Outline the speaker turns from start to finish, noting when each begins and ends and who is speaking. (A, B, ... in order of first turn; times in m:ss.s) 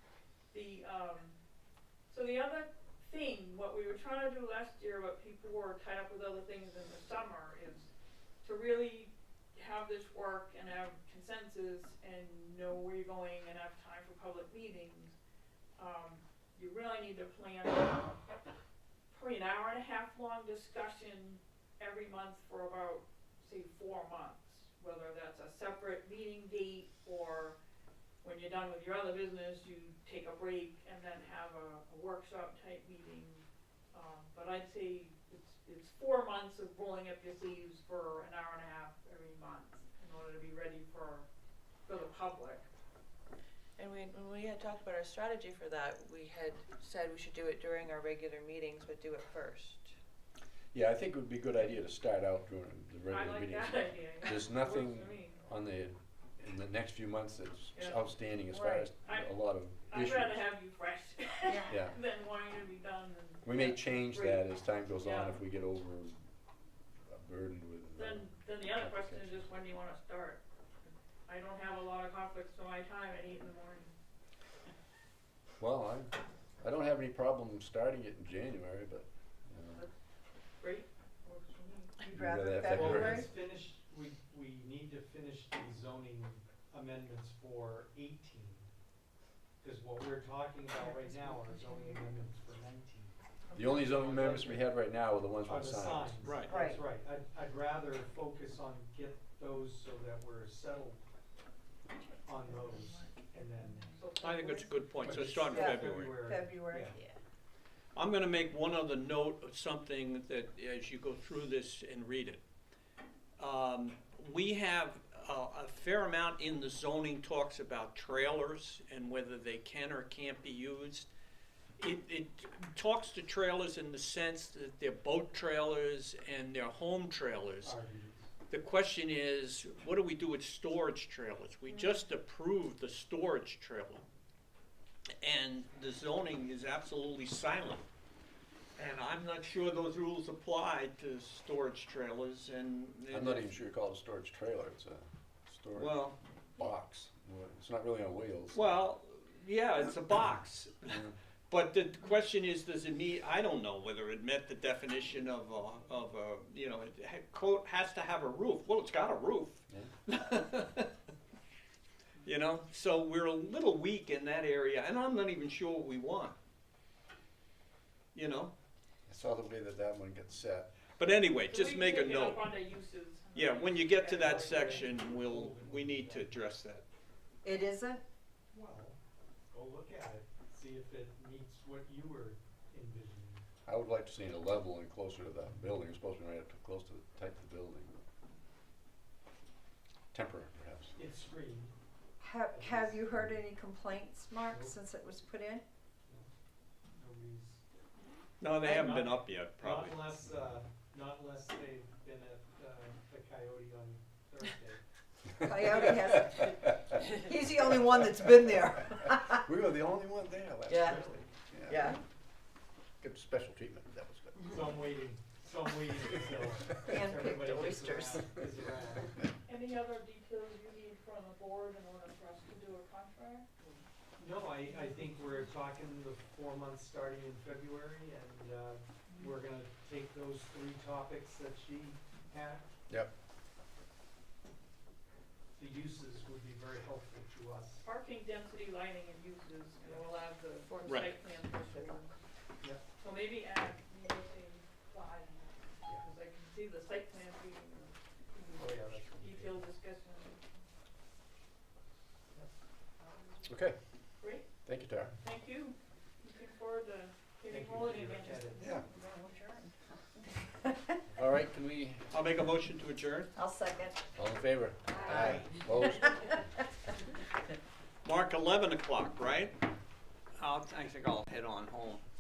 0:00.5-0:01.4 A
0:02.1-0:07.9 A
0:08.4-0:15.2 A
0:15.8-0:18.2 A
0:19.1-0:27.6 A
0:28.2-0:41.3 A
0:41.9-0:42.7 A
0:43.8-0:50.0 B
0:50.7-1:00.4 C
0:53.1-0:55.4 A
0:57.7-0:58.0 A
0:58.5-0:59.3 A
0:59.9-1:05.4 A
1:01.5-1:01.8 D
1:01.7-1:01.9 C
1:03.4-1:06.2 C
1:07.1-1:09.4 C
1:08.0-1:10.4 A
1:11.3-1:14.0 A
1:15.6-1:19.9 C
1:20.6-1:22.0 A
1:22.0-1:23.3 D
1:22.1-1:23.2 C
1:22.7-1:28.7 E
1:29.6-1:33.1 E
1:33.5-1:36.3 C
1:33.7-1:34.7 E
1:35.4-1:41.0 E
1:36.2-1:36.5 F
1:36.5-1:36.8 D
1:42.1-1:44.0 B
1:42.3-1:43.9 E
1:44.0-1:44.7 A
1:44.2-1:46.2 F
1:45.0-1:45.3 C
1:45.1-1:46.9 E
1:45.4-1:47.0 D
1:48.0-1:52.4 F
1:53.4-2:01.1 F
2:01.8-2:07.8 F
2:07.6-2:08.3 E
2:08.5-2:14.0 F
2:15.2-2:17.8 F
2:18.8-2:23.5 F
2:23.1-2:26.0 C
2:25.7-2:26.2 F
2:26.6-2:28.8 C
2:28.5-2:40.9 F
2:30.9-2:31.2 C
2:42.2-2:46.4 F
2:48.1-2:48.5 F
2:49.1-2:50.7 C
2:51.0-2:52.5 F
2:51.5-2:55.0 A
2:53.3-2:56.8 F
2:54.1-2:56.3 E
2:57.4-2:58.0 D
2:58.5-2:59.0 E
2:59.5-3:03.4 E
3:03.6-3:07.9 C
3:10.1-3:10.9 C
3:11.0-3:11.7 E
3:12.2-3:15.6 D
3:12.5-3:13.1 E
3:14.5-3:14.8 E
3:16.9-3:17.6 E
3:18.4-3:20.1 F
3:18.6-3:24.8 E
3:25.4-3:29.4 D
3:29.3-3:31.9 C
3:30.7-3:31.0 D
3:30.8-3:31.3 E
3:31.7-3:32.0 D
3:33.0-3:34.7 C
3:34.5-3:39.2 E
3:36.9-3:38.4 D
3:39.4-3:43.5 A
3:44.2-3:52.8 E
3:55.6-3:57.9 E
3:57.8-4:02.1 A
4:00.8-4:01.2 F
4:03.0-4:10.5 A
4:08.6-4:09.7 E
4:13.4-4:13.8 C
4:14.2-4:14.5 A
4:14.6-4:15.2 C
4:15.2-4:18.7 A
4:17.5-4:18.8 E
4:18.6-4:18.9 C
4:18.6-4:21.0 D
4:21.2-4:22.1 C
4:22.1-4:23.3 F
4:23.3-4:24.0 D
4:24.2-4:26.4 C
4:24.9-4:26.4 D
4:25.1-4:25.5 E
4:28.0-4:29.6 F
4:30.4-4:32.0 F